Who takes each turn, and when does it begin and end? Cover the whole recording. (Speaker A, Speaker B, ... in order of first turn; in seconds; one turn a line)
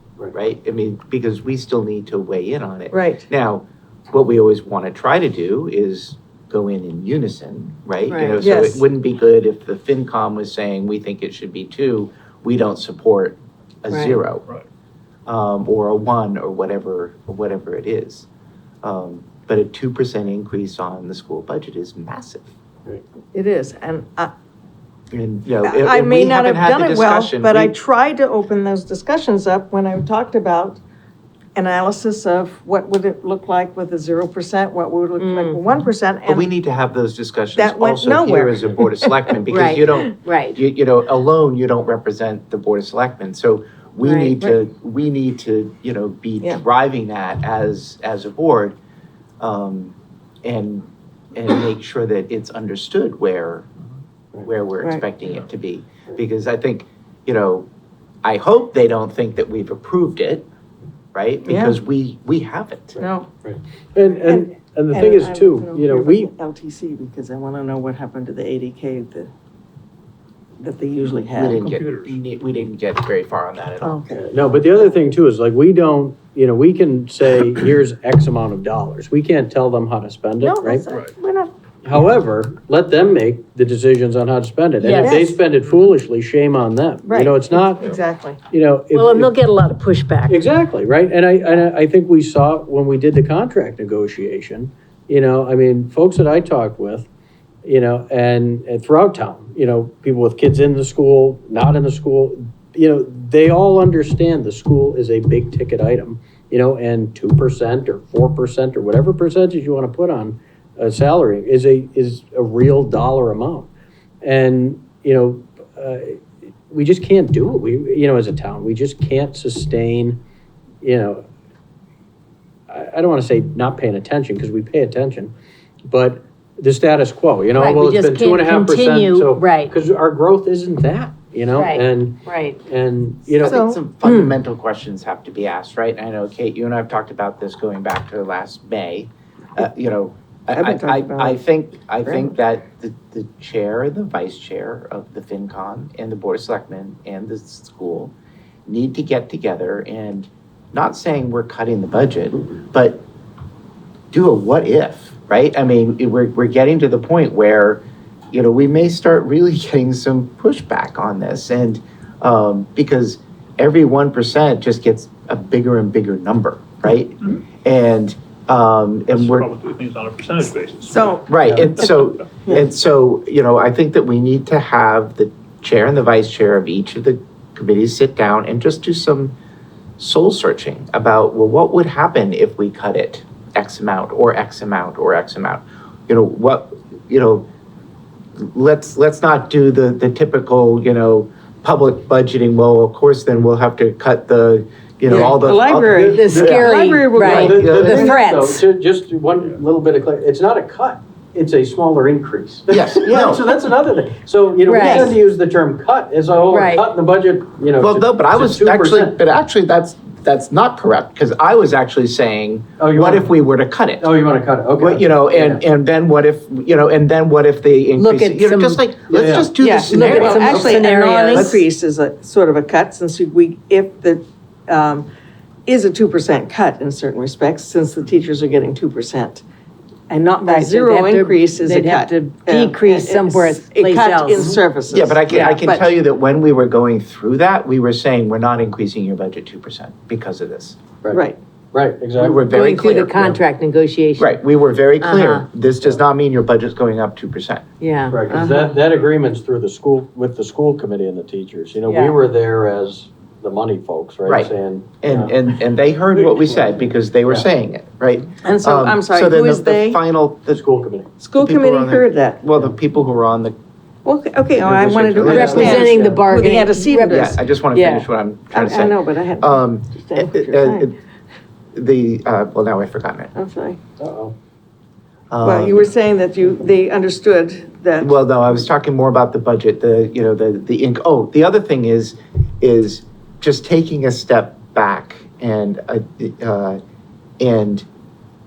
Speaker A: 0.3-14.4
Speaker B: 2.9-3.2
Speaker C: 8.1-8.4
Speaker B: 8.4-8.8
Speaker C: 13.9-14.2
Speaker A: 15.3-18.3
Speaker A: 18.8-22.5
Speaker B: 23.3-24.3
Speaker A: 25.1-27.7
Speaker B: 25.6-30.8
Speaker B: 31.6-36.5
Speaker C: 35.2-35.6
Speaker A: 36.3-48.8
Speaker B: 37.5-38.9
Speaker C: 39.5-40.6
Speaker C: 44.0-44.3
Speaker A: 49.4-53.7
Speaker A: 54.4-57.7
Speaker A: 58.2-60.5
Speaker A: 61.1-63.0
Speaker B: 61.5-61.8
Speaker D: 63.0-66.3
Speaker B: 63.0-63.3
Speaker B: 64.2-69.3
Speaker B: 70.6-71.7
Speaker A: 71.3-74.0
Speaker E: 71.6-72.2
Speaker B: 73.8-74.2
Speaker D: 74.1-80.8
Speaker B: 80.4-81.5
Speaker D: 81.8-88.0
Speaker C: 84.8-85.2
Speaker B: 85.0-85.4
Speaker B: 87.0-88.4
Speaker D: 88.5-89.3
Speaker C: 88.9-90.4
Speaker D: 90.3-97.1
Speaker D: 97.6-113.7
Speaker D: 114.2-120.2
Speaker D: 120.8-121.2
Speaker D: 122.7-125.3
Speaker D: 125.9-133.6
Speaker C: 127.5-129.7
Speaker C: 131.5-132.6
Speaker A: 133.4-148.1
Speaker B: 133.4-133.8
Speaker B: 140.5-141.4
Speaker B: 142.0-142.3
Speaker A: 148.7-153.0
Speaker A: 154.1-169.5
Speaker E: 169.1-171.2
Speaker B: 170.9-171.2
Speaker A: 171.3-179.3
Speaker D: 171.4-171.7
Speaker E: 171.8-172.1
Speaker A: 180.0-187.5
Speaker A: 188.4-196.7
Speaker B: 195.1-198.2
Speaker D: 195.9-209.2
Speaker C: 196.2-198.6
Speaker A: 197.2-198.1
Speaker A: 202.7-203.5
Speaker C: 204.6-205.1
Speaker C: 206.5-206.8
Speaker A: 207.8-214.1
Speaker D: 212.8-213.3
Speaker D: 214.0-215.6
Speaker A: 214.8-220.7
Speaker C: 217.9-218.8
Speaker D: 219.1-220.8
Speaker B: 219.6-225.1
Speaker C: 219.9-221.6
Speaker A: 221.3-221.6
Speaker B: 225.7-229.4
Speaker B: 230.1-235.6
Speaker C: 230.4-234.6
Speaker A: 234.9-240.8
Speaker C: 235.4-235.8
Speaker D: 241.0-242.6
Speaker B: 241.1-241.4
Speaker A: 242.2-243.4
Speaker C: 242.5-244.3
Speaker A: 244.2-247.6
Speaker C: 245.0-245.4
Speaker C: 247.8-248.4
Speaker D: 248.1-255.3
Speaker B: 248.3-248.7
Speaker C: 251.8-252.1
Speaker A: 254.2-260.6
Speaker B: 258.4-260.0
Speaker D: 260.5-261.1
Speaker B: 261.2-262.4
Speaker A: 261.4-263.5
Speaker B: 264.0-267.4
Speaker D: 264.6-266.2
Speaker A: 264.7-265.9
Speaker C: 265.3-268.1
Speaker A: 267.1-270.9
Speaker B: 268.5-270.9
Speaker A: 271.7-273.3
Speaker B: 273.3-273.8
Speaker D: 274.0-274.3
Speaker A: 275.3-275.9
Speaker B: 275.4-278.1
Speaker A: 278.0-286.8
Speaker A: 287.4-287.9